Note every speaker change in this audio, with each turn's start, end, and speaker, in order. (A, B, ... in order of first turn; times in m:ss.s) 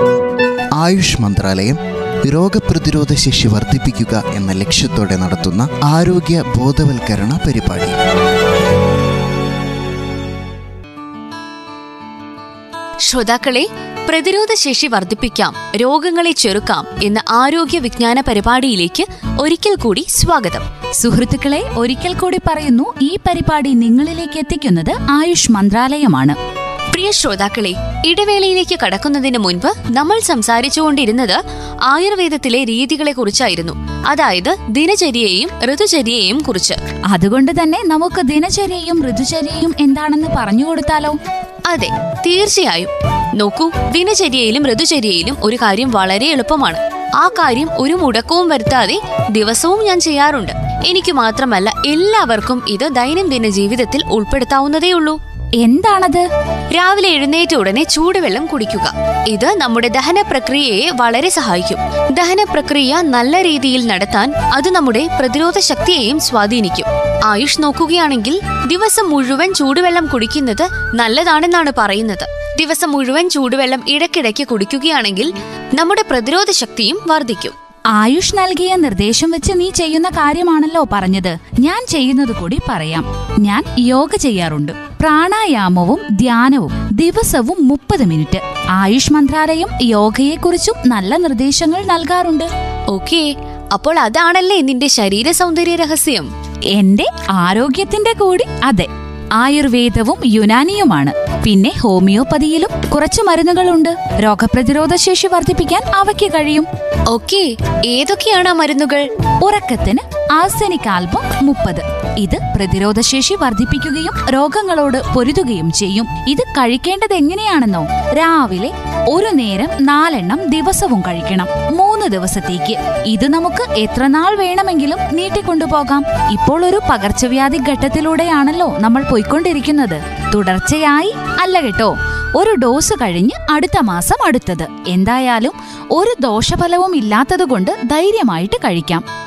0:00.8-0:08.0 A
0:13.1-0:20.6 B
0:21.0-0:26.4 C
0:26.9-0:36.8 B
0:37.1-0:41.2 C
0:41.7-0:55.2 B
0:55.6-0:56.2 C
0:56.7-1:17.5 B
1:18.0-1:32.5 C
1:32.9-1:36.3 B
1:36.7-1:46.7 C
1:47.1-1:49.0 B
1:49.4-2:19.0 C